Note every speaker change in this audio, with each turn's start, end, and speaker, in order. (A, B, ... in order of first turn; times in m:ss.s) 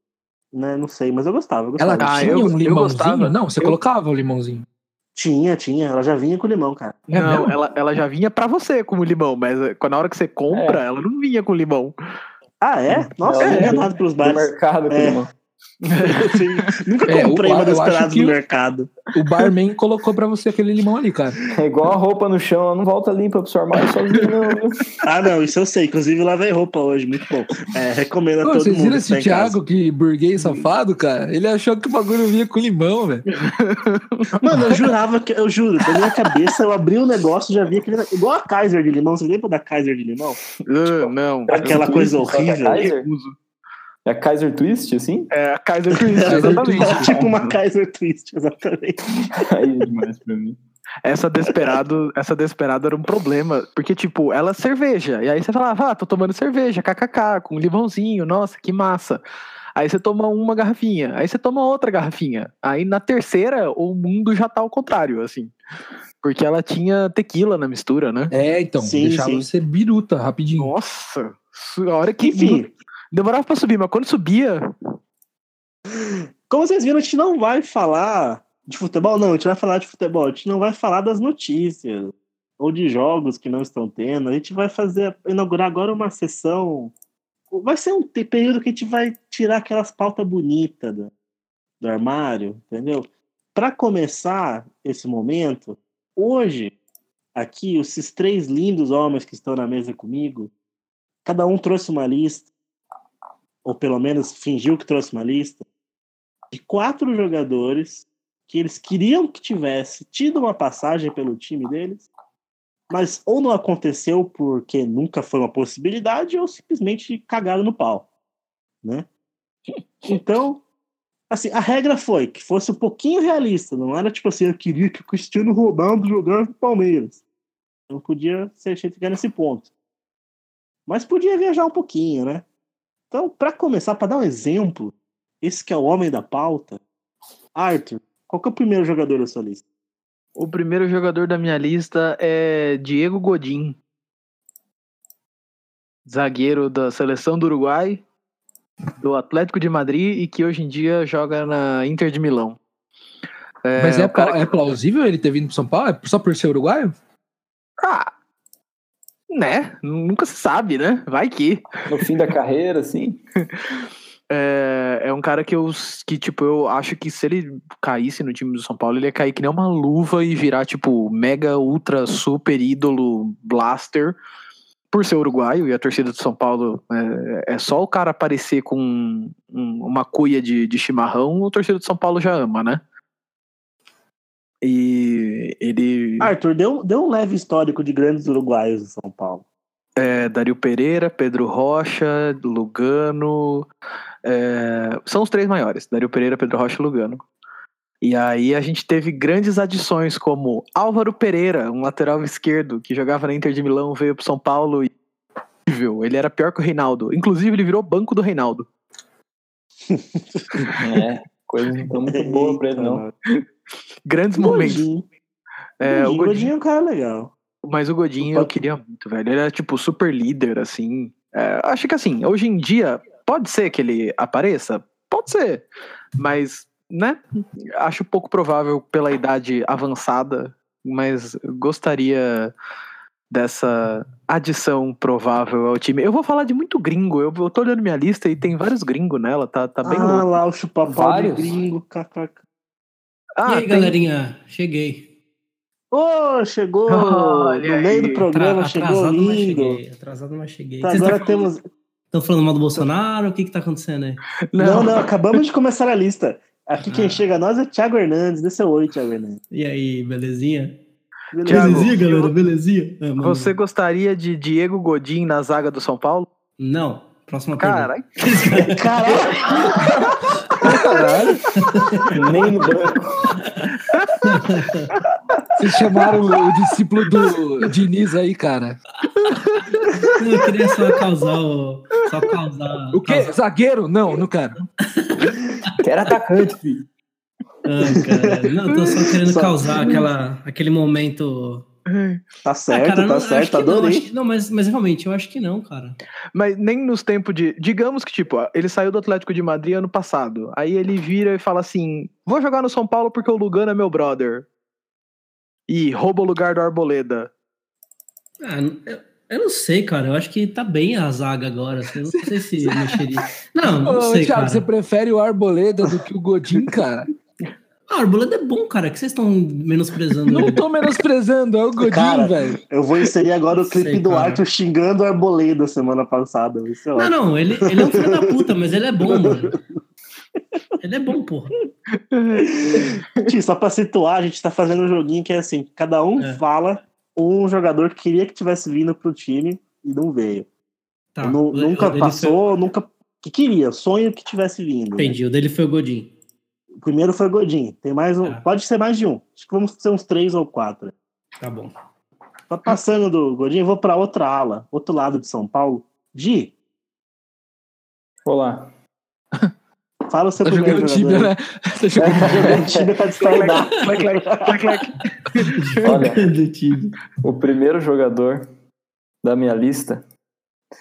0:00.5-0:02.6 A
0:01.8-0:04.6 B
0:02.0-0:03.8 C
0:05.1-0:07.1 A
0:07.1-0:11.9 C
0:07.1-0:07.5 B
0:10.5-0:10.8 D
0:12.6-0:15.2 A
0:12.9-0:15.3 D
0:13.4-0:13.8 C
0:15.8-0:16.1 D
0:16.0-0:16.4 C
0:16.0-0:18.9 A
0:17.1-0:18.4 B
0:19.1-0:21.4 B
0:21.5-0:24.9 D
0:25.0-0:29.6 A
0:28.4-0:33.2 B
0:33.3-0:34.9 C
0:34.4-0:40.4 A
0:40.6-0:43.4 C
0:41.5-0:43.1 D
0:41.5-0:42.8 A
0:44.0-0:45.3 D
0:45.3-0:47.5 C
0:46.0-0:49.3 A
0:46.3-0:47.1 B
0:46.4-0:47.0 D
0:49.4-0:50.6 D
0:51.0-0:59.2 C
0:59.8-1:05.5 C
1:06.2-1:08.3 C
1:08.3-1:10.7 B
1:08.8-1:09.5 A
1:10.6-1:14.7 C
1:12.2-1:12.7 A
1:15.9-1:26.9 A
1:27.5-1:31.1 A
1:31.8-1:36.7 A
1:37.3-1:40.5 A
1:41.2-1:42.5 A
1:43.6-1:45.6 A
1:46.5-1:52.1 A
1:52.9-1:58.1 A
2:00.0-2:00.6 A
2:01.3-2:07.2 A
2:07.9-2:09.7 A
2:10.9-2:12.4 A
2:13.1-2:16.8 A
2:17.6-2:19.6 A
2:20.4-2:23.8 C
2:26.0-2:28.0 C
2:29.0-2:32.6 C
2:33.6-2:34.6 C
2:33.8-2:37.0 B
2:37.8-2:38.1 C
2:39.3-2:41.9 C
2:41.9-2:43.2 D
2:44.3-2:54.2 C
2:54.9-3:02.8 C
3:04.6-3:06.3 C
3:06.2-3:09.4 A
3:10.0-3:13.7 C
3:14.2-3:17.2 C
3:18.0-3:24.9 C
3:25.6-3:28.7 C
3:29.9-3:30.6 A
3:30.8-3:33.0 D
3:32.1-3:33.1 A
3:34.0-3:34.9 C
3:34.4-3:35.1 A
3:35.8-3:36.5 C
3:35.8-3:37.3 A
3:37.6-3:45.6 C
3:38.2-3:38.5 A
3:46.2-3:52.5 C
3:53.3-4:00.3 C
3:59.8-4:02.4 A
4:00.9-4:01.5 D
4:03.4-4:04.0 C
4:03.4-4:05.1 E
4:05.9-4:09.8 A
4:06.9-4:08.2 C
4:08.3-4:11.5 E
4:10.8-4:11.6 A
4:12.1-4:14.2 E
4:14.5-4:15.1 C
4:14.6-4:19.4 A
4:16.9-4:17.2 E
4:19.5-4:20.8 E
4:21.3-4:22.3 A
4:21.4-4:22.0 C
4:21.4-4:23.5 E
4:23.2-4:26.3 C
4:26.6-4:28.9 E
4:27.6-4:28.1 C
4:28.6-4:30.6 A
4:30.6-4:31.4 B
4:31.6-4:32.2 E
4:32.1-4:33.3 D
4:33.4-4:33.7 E
4:34.2-4:34.9 E
4:35.6-4:38.8 B
4:40.2-4:43.3 E
4:42.9-4:44.7 B
4:44.8-4:45.7 E
4:45.8-4:46.9 D
4:47.6-4:51.7 E
4:49.2-4:50.0 A
4:51.9-4:52.2 C
4:52.4-4:54.1 A
4:52.7-4:56.0 E
4:56.3-5:04.5 C
5:05.7-5:07.3 C
5:08.4-5:14.7 E
5:13.6-5:17.1 B
5:17.9-5:20.6 E
5:20.3-5:22.6 B
5:21.9-5:28.3 A
5:23.7-5:24.4 E
5:26.9-5:29.6 E
5:30.8-5:31.5 E
5:32.0-5:33.3 C
5:32.4-5:40.5 A
5:41.1-5:42.4 E
5:41.2-5:45.2 A
5:45.0-5:46.1 E
5:46.8-5:50.9 A
5:51.4-5:51.7 E
5:52.5-5:56.5 A
5:58.2-5:58.7 D
6:00.1-6:01.3 A
6:00.4-6:02.7 B
6:02.0-6:02.9 D
6:02.2-6:04.9 A
6:03.2-6:05.6 C
6:05.4-6:07.0 E
6:05.8-6:06.3 D
6:07.2-6:08.5 D
6:09.2-6:10.0 D